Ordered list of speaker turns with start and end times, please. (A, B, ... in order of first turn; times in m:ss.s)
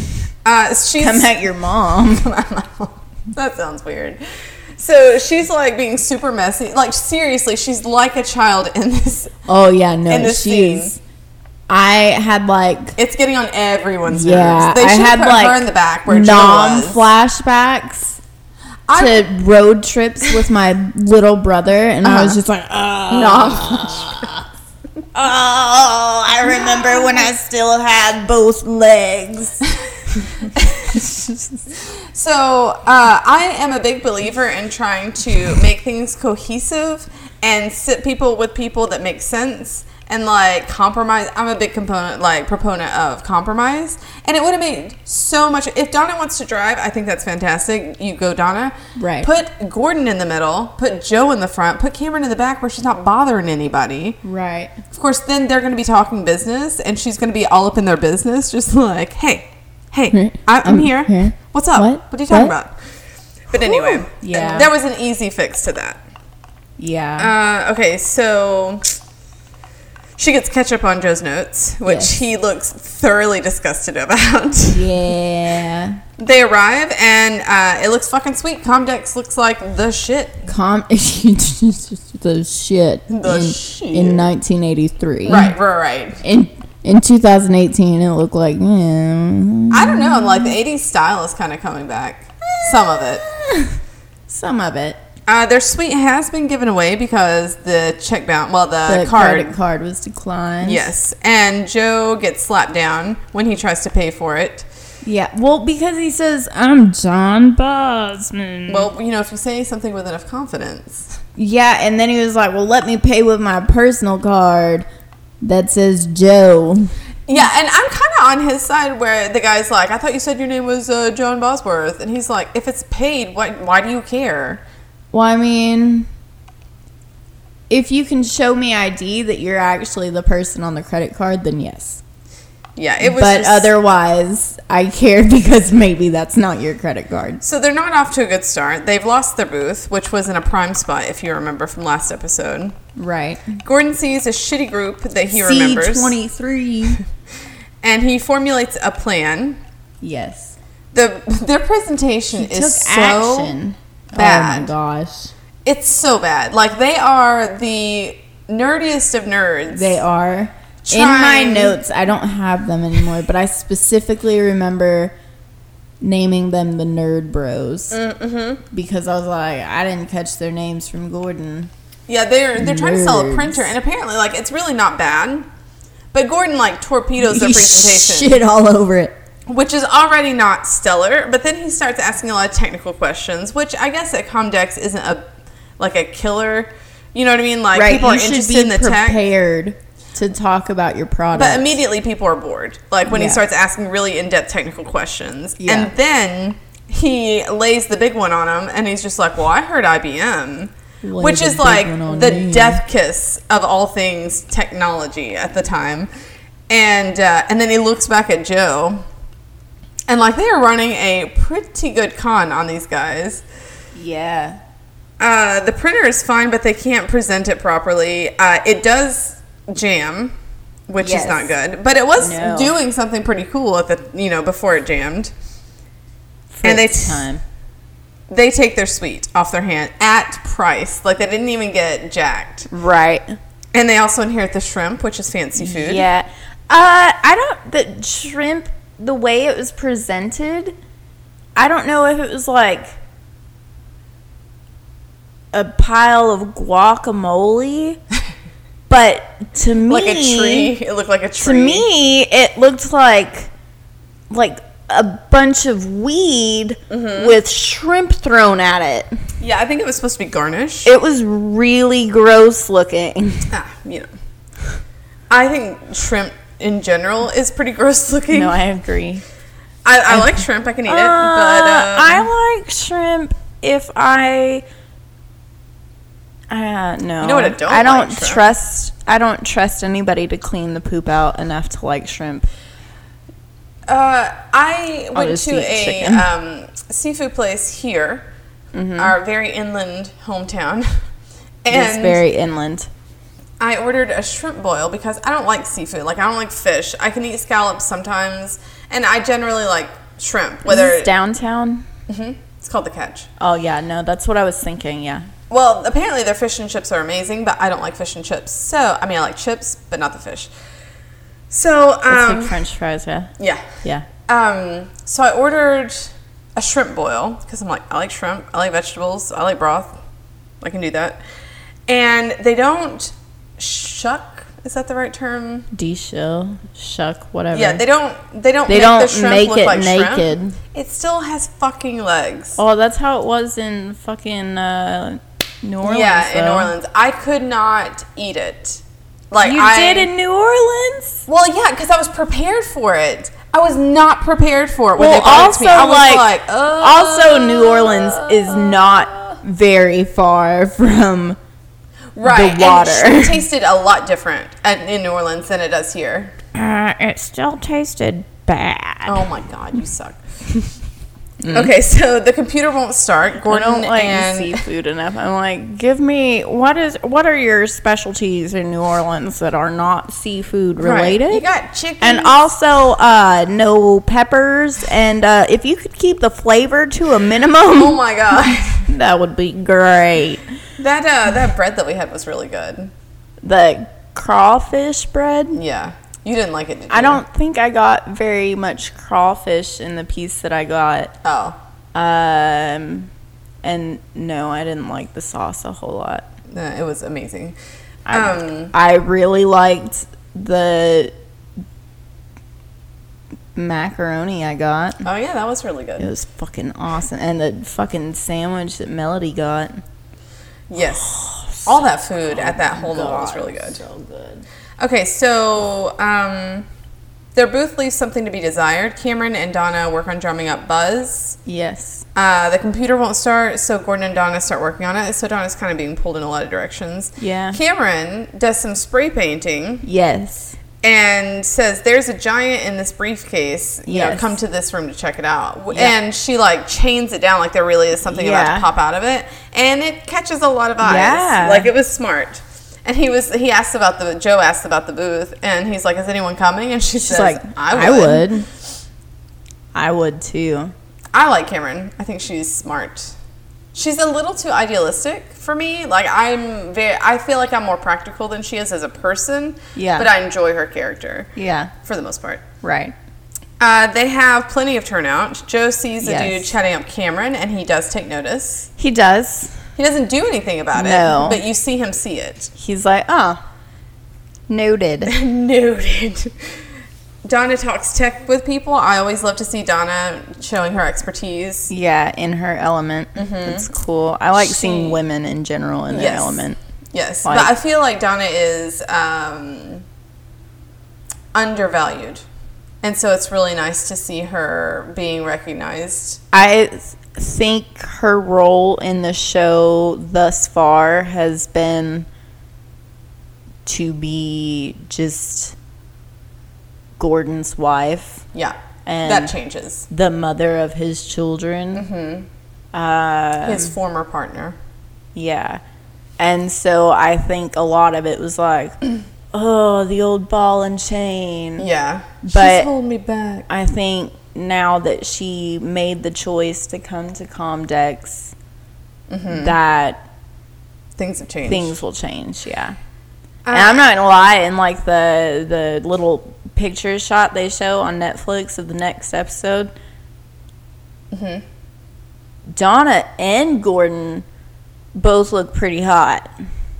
0:00.4-0:01.4 A
0:01.0-0:02.2 B
0:02.1-0:04.2 A
0:04.7-0:09.3 A
0:09.5-0:11.0 B
0:10.1-0:11.0 A
0:11.7-0:13.0 B
0:13.0-0:17.0 A
0:14.1-0:18.2 B
0:18.9-0:19.3 A
0:18.9-0:24.4 B
0:22.0-0:22.4 A
0:23.1-0:24.3 A
0:25.1-0:29.6 B
0:26.5-0:27.2 A
0:30.4-0:31.0 A
0:30.9-0:31.6 B
0:31.7-0:54.2 A
0:49.0-0:49.3 B
0:54.2-0:54.8 B
0:54.9-1:02.8 A
1:00.1-1:02.5 B
1:03.5-1:06.0 A
1:03.5-1:04.7 B
1:06.8-1:07.3 B
1:07.2-1:09.0 A
1:10.2-1:15.1 A
1:11.8-1:12.2 B
1:14.7-1:16.0 B
1:16.2-1:20.5 A
1:20.5-1:25.5 B
1:23.1-1:24.3 A
1:25.2-1:26.2 A
1:26.2-1:30.6 B
1:29.7-1:33.2 A
1:33.3-1:33.8 B
1:34.3-1:35.0 B
1:35.2-1:39.6 A
1:38.9-1:40.9 B
1:40.6-1:44.7 A
1:45.0-1:48.9 B
1:48.7-1:51.2 A
1:51.4-1:54.8 B
1:55.4-1:56.9 B
1:57.3-2:04.6 A
2:05.1-2:06.1 B
2:07.7-2:12.0 B
2:12.8-2:13.7 A
2:13.0-2:17.4 B
2:17.4-2:22.8 A
2:23.0-2:23.6 B
2:23.6-2:26.2 A
2:25.3-2:27.0 B
2:27.8-2:29.6 A
2:30.0-2:30.6 B
2:30.9-2:33.5 A
2:32.3-2:35.3 B
2:34.1-2:34.7 A
2:35.6-2:40.0 A
2:39.7-2:45.1 B
2:40.8-2:41.8 A
2:46.0-2:48.0 B
2:47.9-2:48.6 A
2:48.7-2:51.7 B
2:52.1-2:55.5 A
2:52.6-2:53.7 B
2:56.1-2:58.4 A
2:57.2-2:59.1 B
2:59.5-3:05.2 A
3:05.8-3:09.2 A
3:07.7-3:11.8 B
3:11.3-3:26.1 A
3:13.1-3:13.4 B
3:15.6-3:15.9 B
3:21.0-3:22.8 B
3:26.7-3:29.0 A
3:30.1-3:33.4 A
3:33.9-3:34.6 B
3:35.2-3:40.3 A
3:40.9-3:45.3 A
3:41.0-3:41.5 B
3:42.2-3:42.8 B
3:46.5-3:47.4 B
3:46.6-3:47.3 A
3:48.3-3:52.7 A
3:52.7-3:53.4 B
3:53.7-3:56.1 A
3:55.6-4:00.7 B
4:01.6-4:03.0 B
4:05.5-4:08.0 B
4:08.9-4:10.7 B
4:09.9-4:11.8 A
4:11.4-4:13.5 B
4:14.3-4:19.1 B
4:16.9-4:17.4 A
4:19.4-4:20.9 A
4:20.8-4:23.5 B
4:23.5-4:24.1 A
4:25.3-4:28.6 A
4:28.3-4:29.2 B
4:29.8-4:32.3 A
4:30.1-4:34.6 B
4:36.5-4:42.5 B
4:37.2-4:38.4 A
4:43.9-4:48.3 A
4:45.1-4:46.3 B
4:48.7-4:49.2 B
4:49.0-4:51.0 A
4:51.6-4:52.2 A
4:51.7-4:52.9 B
4:53.6-5:01.1 A
5:00.6-5:01.8 B
5:02.1-5:03.3 A
5:03.4-5:05.3 B
5:05.5-5:10.5 A
5:11.5-5:12.6 A
5:12.1-5:13.3 B
5:13.4-5:13.7 A
5:14.3-5:19.9 A
5:20.6-5:21.2 A
5:21.9-5:25.7 A
5:25.7-5:27.8 B
5:27.5-5:32.6 A
5:28.7-5:30.6 B
5:32.6-5:36.7 B
5:35.8-5:40.1 A
5:39.4-5:41.2 B
5:41.3-5:49.4 A
5:45.0-5:46.3 B
5:46.8-5:51.4 B
5:52.1-5:56.4 A
5:52.2-5:53.4 B
5:56.5-5:59.3 B
5:59.0-6:00.2 A
6:01.4-6:01.7 B
6:01.5-6:04.6 A
6:03.5-6:11.4 B
6:10.8-6:12.3 A
6:12.0-6:20.4 B
6:17.7-6:18.9 A
6:20.8-6:22.9 A
6:23.4-6:25.6 B
6:25.5-6:27.2 A
6:26.9-6:31.1 B
6:31.2-6:31.6 A
6:31.9-6:33.1 B
6:33.6-6:36.3 B
6:36.5-6:37.6 A
6:38.1-6:41.1 B
6:38.1-6:38.7 A
6:43.5-6:45.0 B
6:45.0-6:46.1 A
6:46.0-6:49.8 B
6:50.7-6:53.8 A
6:50.9-6:51.7 B
6:52.3-6:54.4 B
6:54.8-6:56.6 A
6:57.3-7:01.4 A
7:01.4-7:02.0 B
7:02.1-7:09.8 A
7:07.2-7:07.6 B
7:09.8-7:10.6 B
7:10.8-7:28.4 A
7:13.8-7:14.4 B
7:18.1-7:18.7 B
7:20.8-7:21.7 B
7:27.0-7:28.5 B
7:29.7-7:30.7 B
7:31.1-7:33.2 A
7:33.7-7:41.3 A
7:39.8-7:40.1 B
7:41.4-7:41.7 B
7:41.8-7:42.4 A
7:42.6-7:42.9 B
7:43.6-7:48.7 A
7:46.0-7:46.5 B
7:48.8-7:49.6 B
7:49.8-7:52.5 A
7:50.7-7:51.4 B
7:52.6-7:53.4 B
7:54.5-7:55.1 B
7:55.0-7:56.4 A
7:57.2-8:01.7 A
8:01.7-8:06.6 B
8:03.2-8:03.7 A
8:04.3-8:05.0 A
8:05.9-8:09.8 A
8:07.2-8:07.5 B
8:11.3-8:12.2 A
8:12.8-8:16.2 A
8:16.3-8:22.1 B
8:23.6-8:25.6 B
8:27.0-8:28.2 B
8:28.3-8:29.8 A
8:28.8-8:29.3 B
8:29.9-8:31.8 B
8:31.7-8:32.3 A
8:32.7-8:33.7 B
8:33.4-8:34.6 A
8:35.1-8:35.6 B
8:36.2-8:38.8 B
8:39.3-8:41.6 B
8:41.6-8:43.5 A
8:42.2-8:42.7 B
8:43.5-8:48.3 B
8:49.1-8:49.6 A
8:49.3-8:50.0 B
8:51.0-8:51.8 A
8:51.4-8:52.8 B
8:53.4-8:53.8 A
8:53.5-8:59.7 B
9:01.1-9:01.4 A
9:02.5-9:04.2 B
9:04.9-9:06.3 B